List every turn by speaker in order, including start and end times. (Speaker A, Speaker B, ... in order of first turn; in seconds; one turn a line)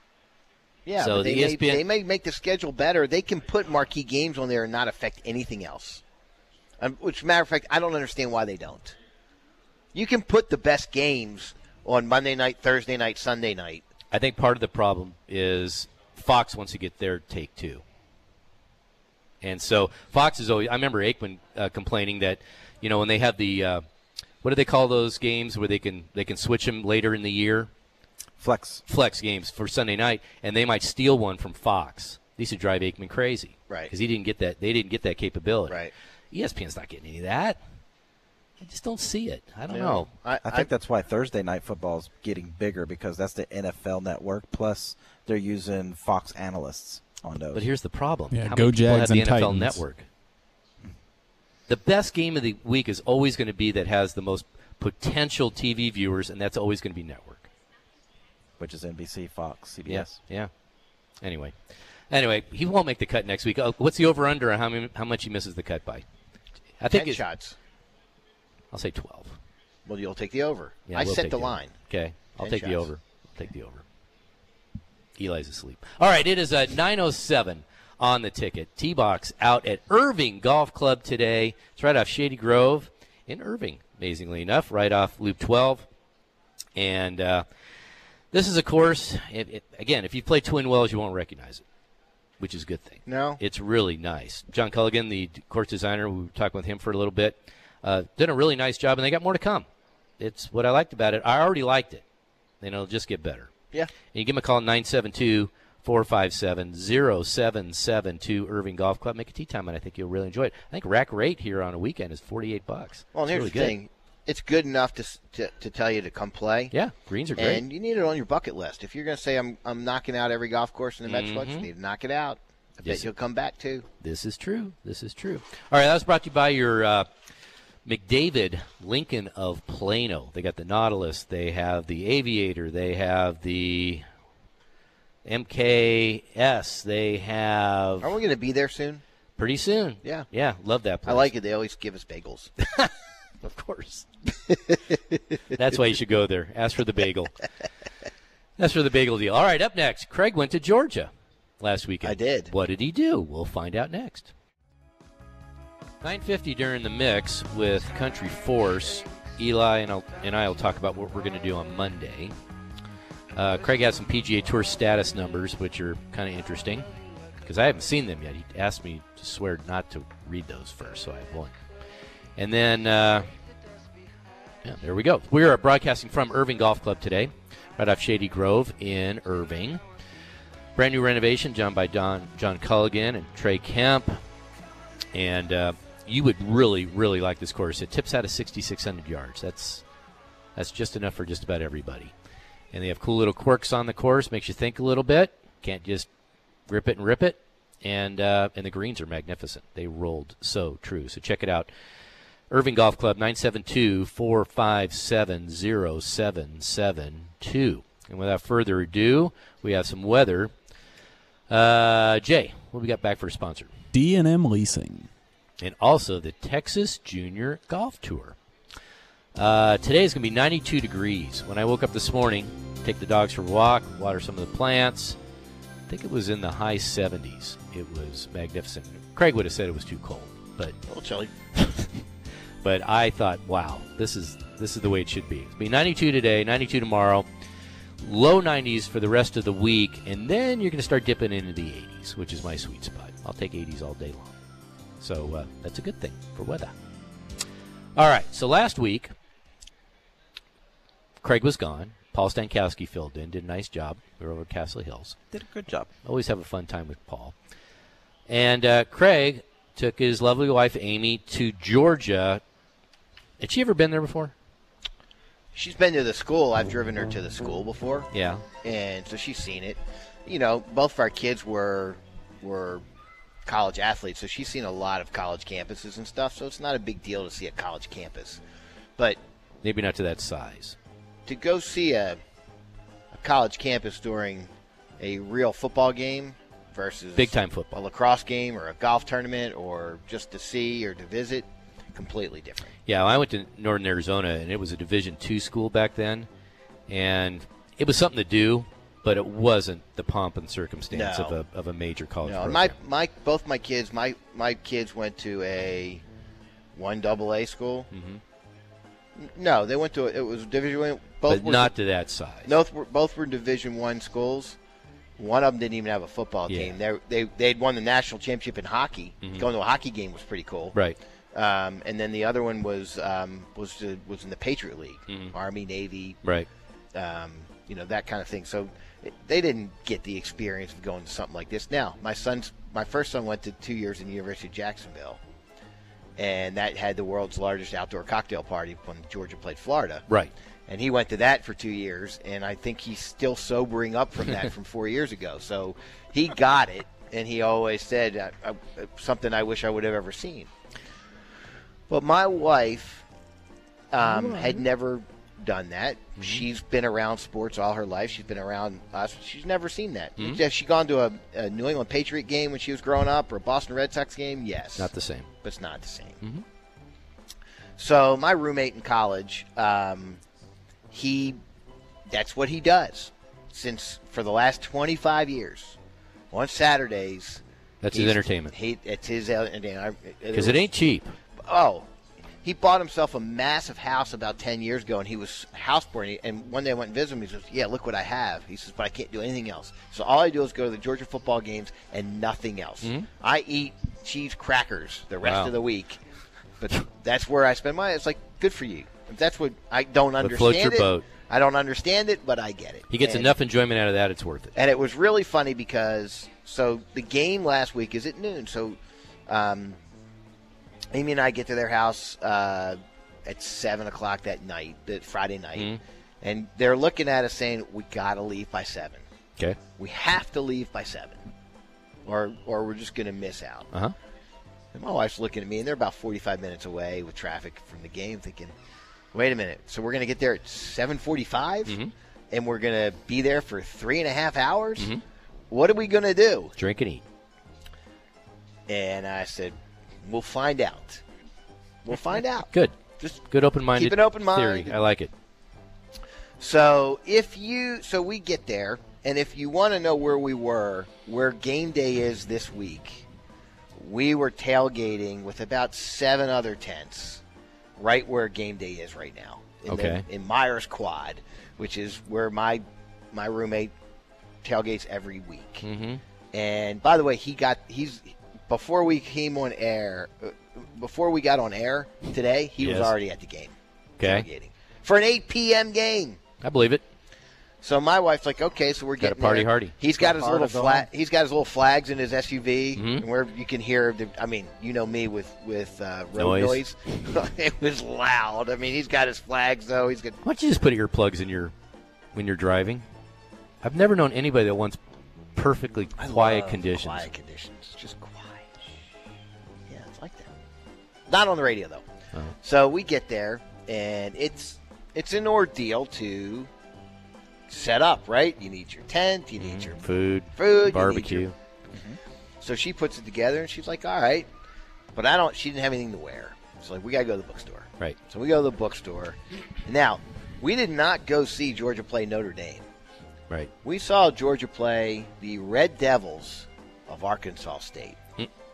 Speaker A: 0.9-6.0
Speaker B: 1.0-1.8
Speaker A: 6.8-9.0
Speaker A: 9.9-13.8
Speaker B: 14.1-17.8
Speaker B: 19.4-23.8
Speaker B: 24.4-27.7
Speaker C: 28.4-28.8
Speaker B: 28.9-35.8
Speaker B: 36.3-37.6
Speaker B: 38.6-40.1
Speaker A: 39.7-40.7
Speaker C: 40.4-47.7
Speaker B: 47.5-50.1
Speaker D: 48.3-49.8
Speaker B: 51.7-57.5
Speaker C: 58.6-60.2
Speaker B: 59.9-60.5
Speaker B: 61.2-61.5
Speaker B: 62.1-66.0
Speaker B: 66.8-67.2
Speaker A: 66.9-67.6
Speaker B: 68.7-69.4
Speaker A: 69.9-71.7
Speaker B: 70.9-73.8
Speaker A: 72.4-72.9
Speaker B: 75.2-85.9
Speaker B: 86.8-87.5
Speaker B: 88.3-91.6
Speaker B: 92.4-99.7
Speaker A: 93.1-93.4
Speaker B: 100.2-102.0
Speaker B: 102.6-103.5
Speaker B: 104.1-113.8
Speaker A: 113.1-116.7
Speaker B: 116.7-117.7
Speaker A: 117.3-123.9
Speaker B: 121.0-121.7
Speaker B: 122.8-123.1
Speaker B: 124.0-127.1
Speaker B: 127.9-134.0
Speaker B: 135.2-138.1
Speaker A: 138.0-139.0
Speaker B: 139.4-141.3
Speaker A: 140.0-140.3
Speaker A: 141.1-142.5
Speaker B: 143.4-144.1
Speaker A: 144.5-145.2
Speaker B: 145.5-147.4
Speaker B: 148.6-154.3
Speaker A: 152.0-152.5
Speaker B: 156.0-162.3
Speaker B: 163.3-166.9
Speaker B: 167.4-171.6
Speaker B: 172.4-173.3
Speaker B: 174.6-179.8
Speaker B: 180.8-184.2
Speaker B: 185.1-189.8
Speaker B: 190.6-192.1
Speaker B: 192.7-196.1
Speaker B: 196.7-201.7
Speaker B: 202.5-210.5
Speaker B: 211.5-213.7
Speaker D: 213.9-215.1
Speaker B: 215.6-218.4
Speaker B: 219.3-225.2
Speaker B: 225.9-230.8
Speaker A: 230.9-231.7
Speaker B: 232.6-237.3
Speaker B: 238.0-244.3
Speaker B: 245.0-246.7
Speaker B: 248.0-249.1
Speaker B: 251.2-255.2
Speaker C: 255.3-255.9
Speaker B: 256.1-257.3
Speaker B: 258.3-262.4
Speaker B: 263.4-264.3
Speaker A: 265.5-268.1
Speaker B: 268.1-268.4
Speaker A: 268.6-272.8
Speaker A: 273.4-278.4
Speaker B: 279.6-280.8
Speaker A: 281.3-282.2
Speaker A: 283.1-292.8
Speaker B: 287.2-287.8
Speaker B: 292.9-296.3
Speaker B: 296.9-302.8
Speaker A: 300.9-301.4
Speaker A: 302.2-306.0
Speaker A: 306.7-307.9
Speaker B: 307.9-308.2
Speaker A: 309.2-311.7
Speaker B: 311.3-312.5
Speaker A: 312.4-314.6
Speaker A: 315.2-320.8
Speaker B: 316.5-316.8
Speaker A: 321.3-326.2
Speaker B: 325.1-325.4
Speaker A: 326.9-335.2
Speaker A: 336.2-340.1
Speaker A: 340.7-350.5
Speaker A: 351.9-353.1
Speaker A: 353.9-364.9
Speaker B: 354.2-354.5
Speaker B: 356.2-356.4
Speaker B: 364.8-365.3
Speaker A: 365.4-366.2
Speaker A: 367.8-370.2
Speaker A: 370.9-371.4
Speaker A: 372.1-375.8
Speaker A: 376.3-380.7
Speaker B: 377.8-378.6
Speaker B: 380.3-381.1
Speaker A: 381.4-381.9
Speaker A: 382.4-396.0
Speaker B: 392.8-393.1
Speaker B: 395.2-395.5
Speaker A: 396.6-403.4
Speaker B: 400.2-401.1
Speaker B: 402.9-404.5
Speaker A: 404.6-409.8
Speaker A: 410.9-419.0
Speaker A: 419.8-421.2
Speaker A: 422.1-423.7
Speaker A: 424.7-428.5
Speaker A: 429.1-431.8
Speaker B: 431.7-431.9
Speaker A: 432.3-434.9
Speaker A: 435.5-436.6
Speaker B: 436.6-437.0
Speaker A: 438.7-441.0
Speaker A: 441.8-443.2
Speaker B: 442.5-442.8
Speaker B: 443.3-445.1
Speaker A: 443.7-444.8
Speaker A: 446.4-453.1
Speaker A: 453.8-457.2
Speaker A: 457.8-463.7
Speaker B: 459.7-460.1
Speaker A: 464.4-465.7
Speaker B: 465.6-466.0
Speaker A: 466.3-476.2
Speaker B: 472.6-472.9
Speaker B: 474.0-474.3
Speaker B: 476.4-476.8
Speaker A: 477.6-490.2
Speaker B: 479.0-479.8
Speaker C: 479.9-480.9
Speaker B: 482.8-483.1
Speaker B: 486.2-486.6
Speaker B: 490.2-491.5
Speaker B: 492.1-492.9
Speaker B: 493.6-494.8
Speaker B: 495.4-497.1
Speaker A: 496.0-498.8
Speaker A: 499.7-500.3
Speaker A: 501.1-501.8
Speaker A: 502.4-506.5
Speaker A: 507.5-509.8
Speaker B: 509.4-511.4
Speaker A: 510.4-511.3
Speaker C: 511.7-512.0
Speaker A: 512.4-514.3
Speaker A: 515.0-522.7
Speaker A: 523.6-528.0